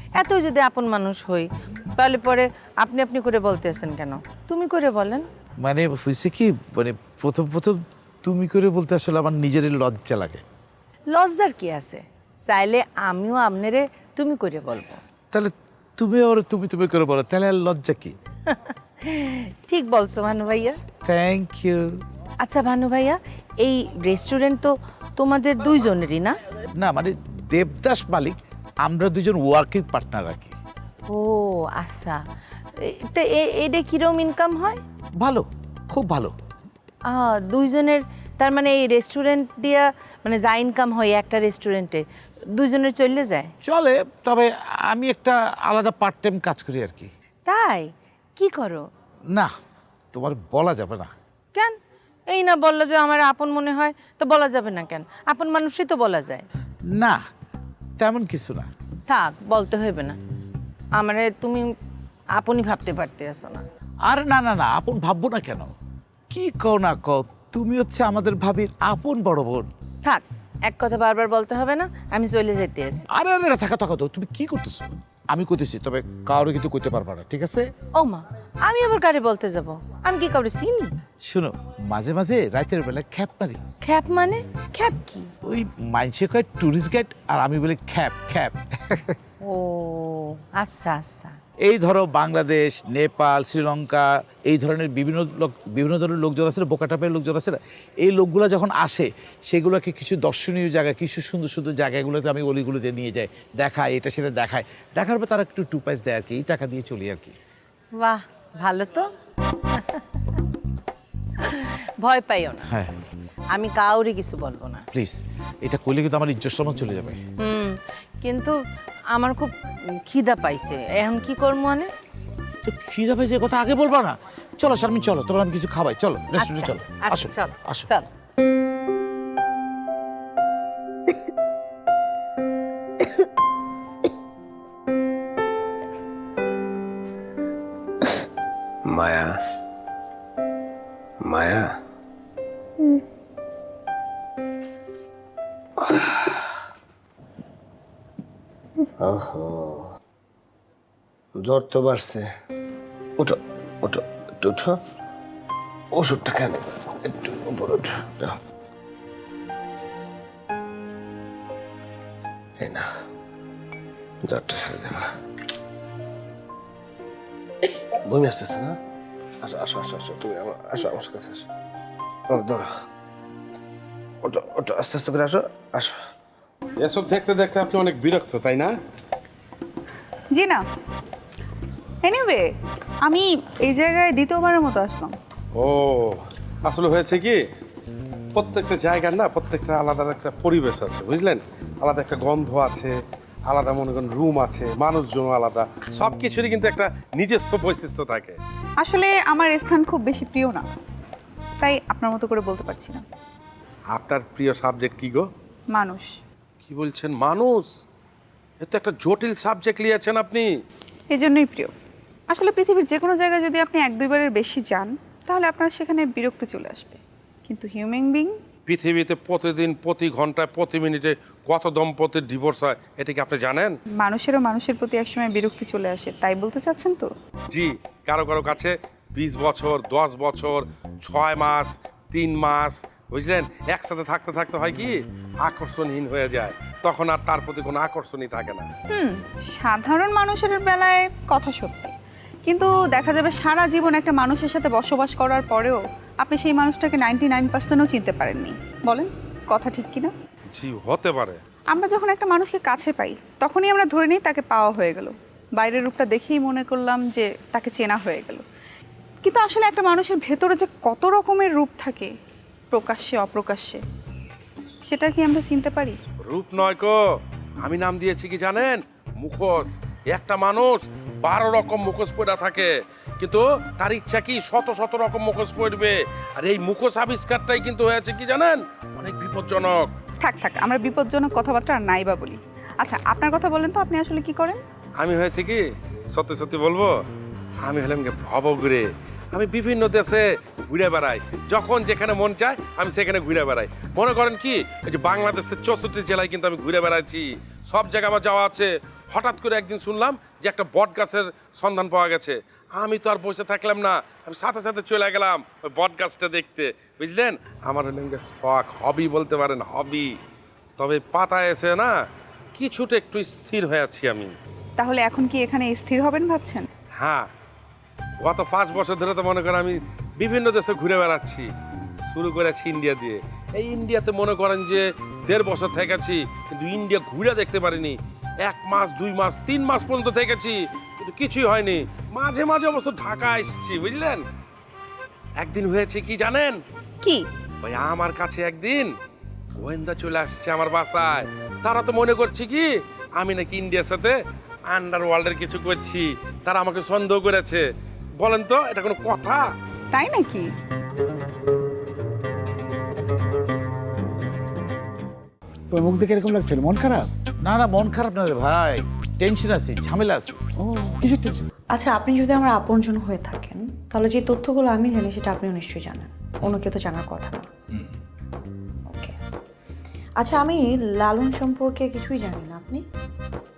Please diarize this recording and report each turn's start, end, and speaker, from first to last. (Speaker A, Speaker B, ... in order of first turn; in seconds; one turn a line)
Speaker A: 0.2-5.3
Speaker B: 5.6-10.4
Speaker A: 11.1-15.0
Speaker B: 15.3-18.1
Speaker A: 18.5-20.8
Speaker B: 21.1-22.0
Speaker A: 22.4-26.4
Speaker B: 26.8-30.6
Speaker A: 31.1-32.2
Speaker A: 32.8-34.8
Speaker B: 35.2-36.3
Speaker A: 37.0-43.5
Speaker B: 43.6-47.1
Speaker A: 47.5-48.9
Speaker B: 50.1-51.1
Speaker A: 51.5-56.5
Speaker B: 56.9-57.2
Speaker B: 58.0-58.7
Speaker A: 59.1-60.2
Speaker A: 60.9-61.7
Speaker A: 62.3-63.6
Speaker B: 64.1-65.7
Speaker B: 66.3-69.7
Speaker A: 70.0-73.0
Speaker B: 73.1-77.7
Speaker A: 78.0-80.9
Speaker B: 81.2-83.6
Speaker A: 83.8-85.3
Speaker B: 85.5-89.2
Speaker A: 89.4-91.4
Speaker B: 91.6-107.3
Speaker A: 108.0-109.1
Speaker A: 109.8-110.0
Speaker A: 111.4-112.7
Speaker B: 112.7-112.9
Speaker A: 113.5-114.9
Speaker B: 114.9-117.2
Speaker A: 117.4-118.6
Speaker A: 119.1-119.5
Speaker A: 120.0-121.9
Speaker B: 122.6-127.9
Speaker A: 126.4-128.1
Speaker C: 138.8-139.3
Speaker C: 141.2-141.7
Speaker C: 149.0-149.9
Speaker C: 151.3-152.3
Speaker C: 153.2-154.8
Speaker C: 155.9-158.3
Speaker C: 162.6-162.9
Speaker C: 164.2-165.0
Speaker C: 168.0-168.8
Speaker C: 169.4-171.5
Speaker C: 172.3-172.7
Speaker C: 174.2-175.9
Speaker D: 176.8-178.7
Speaker E: 180.4-180.6
Speaker E: 182.0-182.5
Speaker E: 183.1-185.1
Speaker D: 185.6-187.4
Speaker D: 188.3-193.0
Speaker D: 193.5-198.4
Speaker E: 198.8-200.7
Speaker E: 201.6-203.0
Speaker D: 203.9-205.2
Speaker E: 205.8-206.1
Speaker D: 206.7-207.7
Speaker D: 208.6-210.5
Speaker E: 211.1-211.7
Speaker E: 212.3-218.3
Speaker D: 218.7-223.8
Speaker E: 224.0-227.1
Speaker D: 227.5-234.9
Speaker D: 235.4-238.7
Speaker E: 238.9-241.9
Speaker E: 242.4-250.1
Speaker D: 250.5-251.4
Speaker E: 251.7-258.4
Speaker E: 259.2-262.1
Speaker E: 262.7-263.8
Speaker E: 264.9-266.0
Speaker D: 266.3-267.0
Speaker D: 267.6-272.7
Speaker D: 273.2-279.9
Speaker E: 280.2-284.6
Speaker D: 285.0-286.9
Speaker D: 287.6-310.1
Speaker D: 310.8-311.9
Speaker D: 312.6-314.3
Speaker E: 314.8-316.6
Speaker D: 317.0-317.3
Speaker D: 318.2-321.5
Speaker D: 322.1-334.2
Speaker D: 335.4-336.6
Speaker D: 337.6-338.9
Speaker D: 339.6-342.7
Speaker D: 343.2-344.1
Speaker D: 344.7-347.6
Speaker D: 348.2-349.5
Speaker E: 349.9-350.5
Speaker B: 355.7-361.4
Speaker F: 361.7-367.5
Speaker F: 370.2-372.8